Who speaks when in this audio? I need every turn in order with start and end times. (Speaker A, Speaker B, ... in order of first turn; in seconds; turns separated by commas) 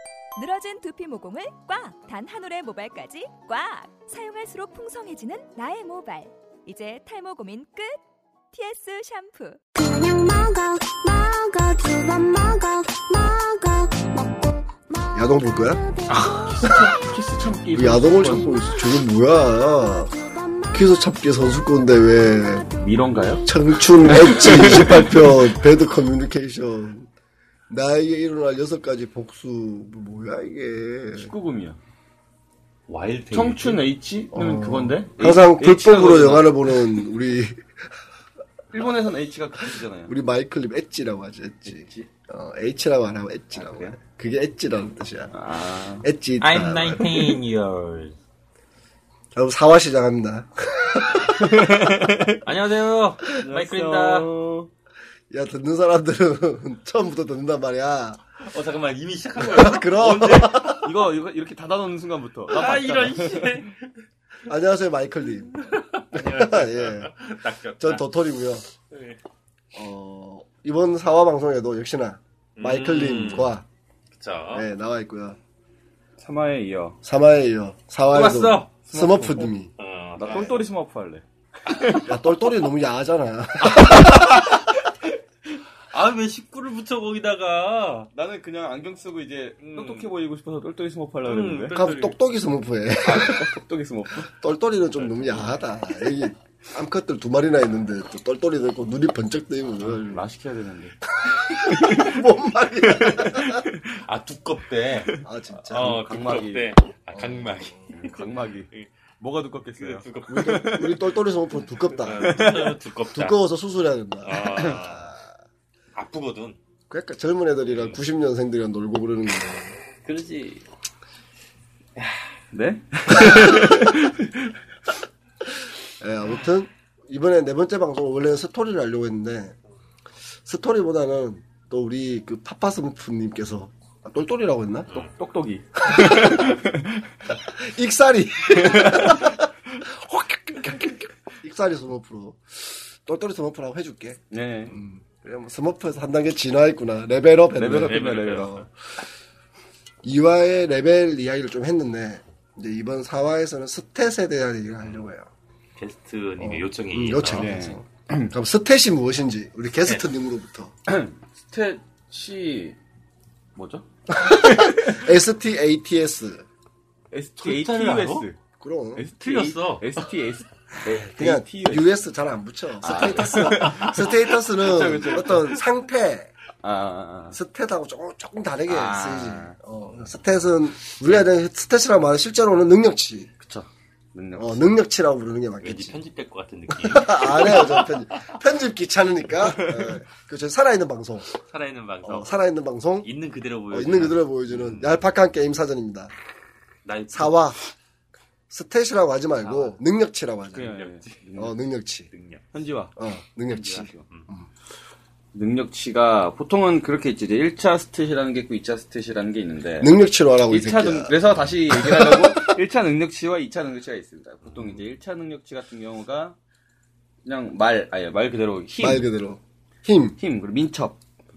Speaker A: 0.3-8.0, Speaker A: 8.5-9.6, Speaker B: 9.8-14.9, Speaker C: 15.1-15.8, Speaker D: 16.1-18.5, Speaker E: 16.2-16.9, Speaker C: 17.7-20.1, Speaker B: 20.2-20.8, Speaker C: 20.7-22.7, Speaker D: 22.7-23.4, Speaker C: 23.4-27.1, Speaker D: 24.1-25.3, Speaker C: 27.7-31.3, Speaker D: 31.1-31.8, Speaker E: 32.9-33.8, Speaker D: 33.3-37.0, Speaker C: 34.3-37.6, Speaker D: 38.7-40.1, Speaker C: 40.1-45.3, Speaker D: 41.7-42.1, Speaker D: 43.5-44.0, Speaker D: 45.3-46.1, Speaker C: 46.0-47.4, Speaker E: 46.4-48.1, Speaker C: 49.3-51.8, Speaker D: 51.4-54.7, Speaker E: 52.4-54.3, Speaker C: 55.3-58.2, Speaker E: 58.4-59.9, Speaker C: 59.4-60.9, Speaker D: 59.9-63.6, Speaker E: 62.5-63.8, Speaker C: 64.5-67.2, Speaker E: 65.5-68.0, Speaker C: 67.8-68.6, Speaker E: 68.9-69.2, Speaker C: 69.7-73.6, Speaker E: 72.5-73.5, Speaker E: 74.2-74.7, Speaker C: 74.5-75.4, Speaker D: 76.2-77.0, Speaker C: 77.0-79.7, Speaker E: 78.1-80.6, Speaker D: 80.2-82.1, Speaker E: 81.7-82.0, Speaker C: 82.0-84.5, Speaker E: 83.7-84.7, Speaker E: 85.9-88.1, Speaker D: 88.1-91.8, Speaker E: 89.6-90.1, Speaker E: 91.2-92.2, Speaker C: 91.7-93.5, Speaker D: 93.0-94.3, Speaker C: 94.2-100.2, Speaker D: 100.0-101.0, Speaker C: 101.2-103.7, Speaker D: 101.5-102.2, Speaker D: 102.9-103.8, Speaker E: 103.8-108.9, Speaker C: 105.2-106.0, Speaker D: 105.7-106.7, Speaker C: 107.1-107.8, Speaker D: 107.9-111.0, Speaker E: 109.8-111.0, Speaker C: 110.3-112.5, Speaker E: 112.0-113.4, Speaker D: 112.2-112.8, Speaker C: 113.1-115.2, Speaker E: 114.2-115.1, Speaker E: 115.9-116.6, Speaker C: 116.9-119.8, Speaker E: 120.0-120.6, Speaker D: 122.5-124.5, Speaker C: 126.0-129.5, Speaker C: 130.4-134.9, Speaker D: 134.9-137.0, Speaker C: 135.8-136.6, Speaker C: 137.4-148.7, Speaker D: 138.5-139.4, Speaker D: 144.3-144.8, Speaker D: 147.5-148.7, Speaker E: 147.7-148.6, Speaker C: 150.0-155.3, Speaker E: 155.8-157.6, Speaker C: 156.4-160.7, Speaker D: 157.3-158.3, Speaker D: 160.9-162.8, Speaker D: 163.6-165.0, Speaker C: 164.1-166.4, Speaker D: 167.1-168.4, Speaker E: 167.4-168.3, Speaker C: 168.6-169.0, Speaker D: 168.9-171.9, Speaker E: 169.2-170.1, Speaker C: 171.2-176.3, Speaker D: 172.8-175.6, Speaker E: 173.3-173.7, Speaker D: 176.6-177.4, Speaker C: 177.3-183.3, Speaker D: 178.7-179.5, Speaker D: 183.4-184.6, Speaker C: 184.3-186.0, Speaker E: 185.6-188.0, Speaker C: 186.7-191.3, Speaker D: 189.6-189.9, Speaker E: 191.4-192.3, Speaker C: 192.0-193.1, Speaker E: 193.0-194.2, Speaker C: 193.7-196.1, Speaker D: 194.5-194.8, Speaker E: 196.8-197.3, Speaker C: 197.1-197.6, Speaker C: 198.5-200.8, Speaker E: 199.4-199.8, Speaker D: 200.5-201.5, Speaker E: 200.5-201.2, Speaker C: 201.4-202.1, Speaker E: 202.1-202.5, Speaker D: 202.5-202.9, Speaker C: 203.0-204.5, Speaker E: 203.6-204.3, Speaker D: 203.7-204.1, Speaker D: 205.3-209.9, Speaker C: 209.8-212.6, Speaker D: 210.5-216.4, Speaker D: 217.2-219.0, Speaker C: 218.8-220.2, Speaker D: 220.2-221.0